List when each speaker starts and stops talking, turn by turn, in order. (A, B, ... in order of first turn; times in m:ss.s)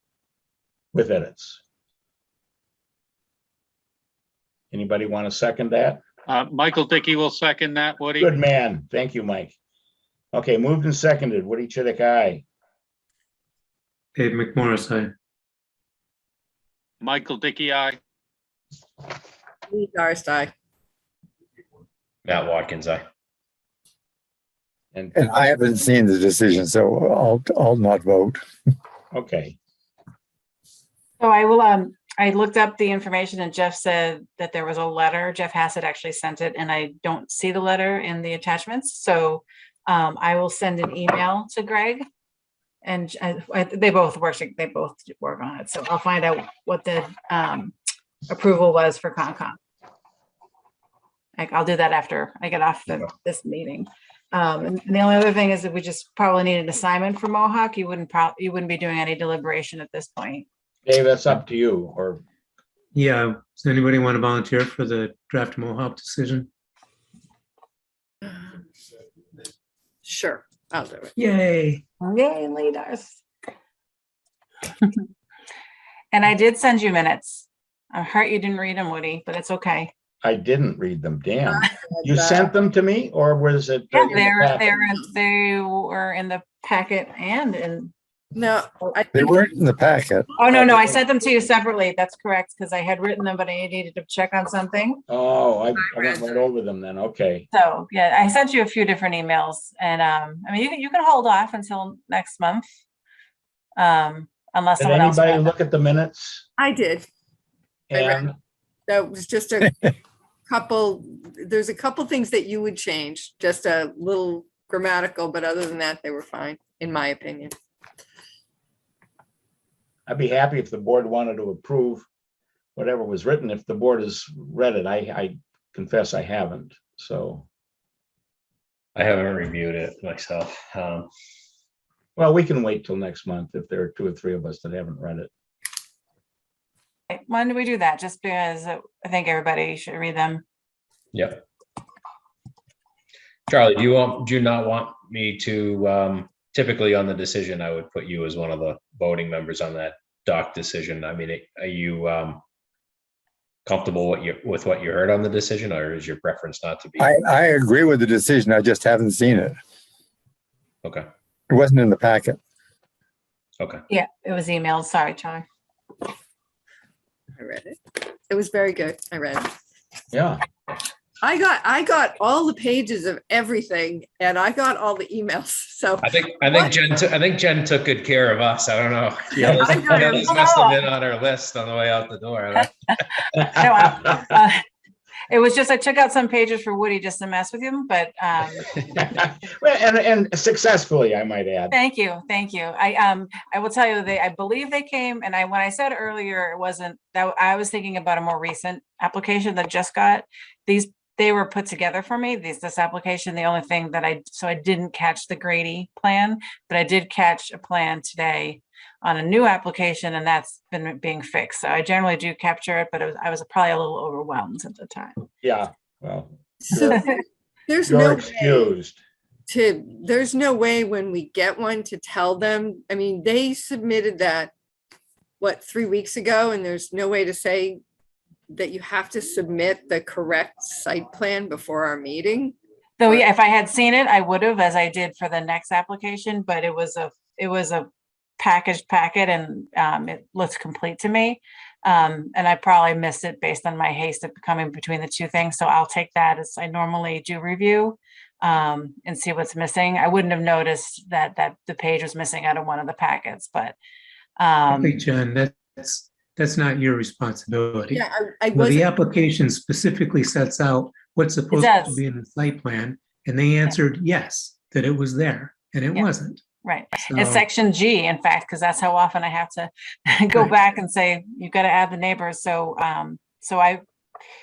0:00.9-0:01.6 A
0:04.7-0:06.0 A
0:06.3-0:08.3 B
0:08.2-0:09.5 A
0:10.3-0:12.4 A
0:14.1-0:15.1 C
0:17.0-0:18.0 B
0:19.7-0:20.5 D
0:22.2-0:23.0 E
0:24.9-0:25.3 A
0:25.1-0:28.4 F
0:29.1-0:29.6 A
0:31.2-0:42.0 G
0:42.8-0:47.7 G
0:48.3-0:49.6 G
0:51.4-1:00.4 G
1:00.8-1:02.2 A
1:02.9-1:06.5 C
1:08.2-1:08.6 D
1:10.0-1:11.1 D
1:11.2-1:11.8 C
1:12.0-1:13.2 G
1:16.1-1:19.9 G
1:20.2-1:24.7 A
1:21.5-1:22.5 D
1:23.9-1:27.9 G
1:28.3-1:29.5 D
1:29.1-1:30.3 F
1:30.4-1:35.0 G
1:30.5-1:31.0 A
1:35.1-1:37.5 A
1:36.0-1:36.2 D
1:37.5-1:42.6 G
1:43.8-1:45.5 G
1:44.8-1:46.4 A
1:46.6-1:47.1 D
1:47.9-1:48.3 A
1:47.9-1:48.2 D
1:48.9-1:49.9 D
1:50.5-1:57.5 D
2:00.1-2:02.0 A
2:02.7-2:07.4 A
2:08.9-2:11.1 E
2:12.2-2:15.3 A
2:17.1-2:20.4 G
2:21.1-2:21.4 E
2:23.5-2:32.4 E
2:33.6-2:37.1 E
2:37.0-2:39.6 F
2:41.5-2:42.4 F
2:43.9-2:45.4 G
2:47.4-2:49.5 D
2:50.1-2:50.4 A
2:51.2-2:56.7 D
2:56.0-3:03.0 E
2:59.4-3:00.2 D
2:59.4-3:00.2 A
3:00.1-3:00.8 G
3:03.4-3:04.6 G
3:05.3-3:08.8 G
3:08.9-3:11.8 A
3:11.7-3:35.2 G
3:35.4-3:37.0 A
3:36.6-3:37.0 D
3:37.7-3:38.7 D
3:37.8-3:39.0 A
3:39.5-3:44.5 D
3:45.4-3:47.8 D
3:48.5-3:53.2 D
3:53.0-3:57.9 G
3:58.4-4:13.8 G
4:14.4-4:15.0 G
4:14.7-4:27.4 C
4:17.9-4:18.9 D
4:21.5-4:22.0 G
4:26.6-4:33.8 G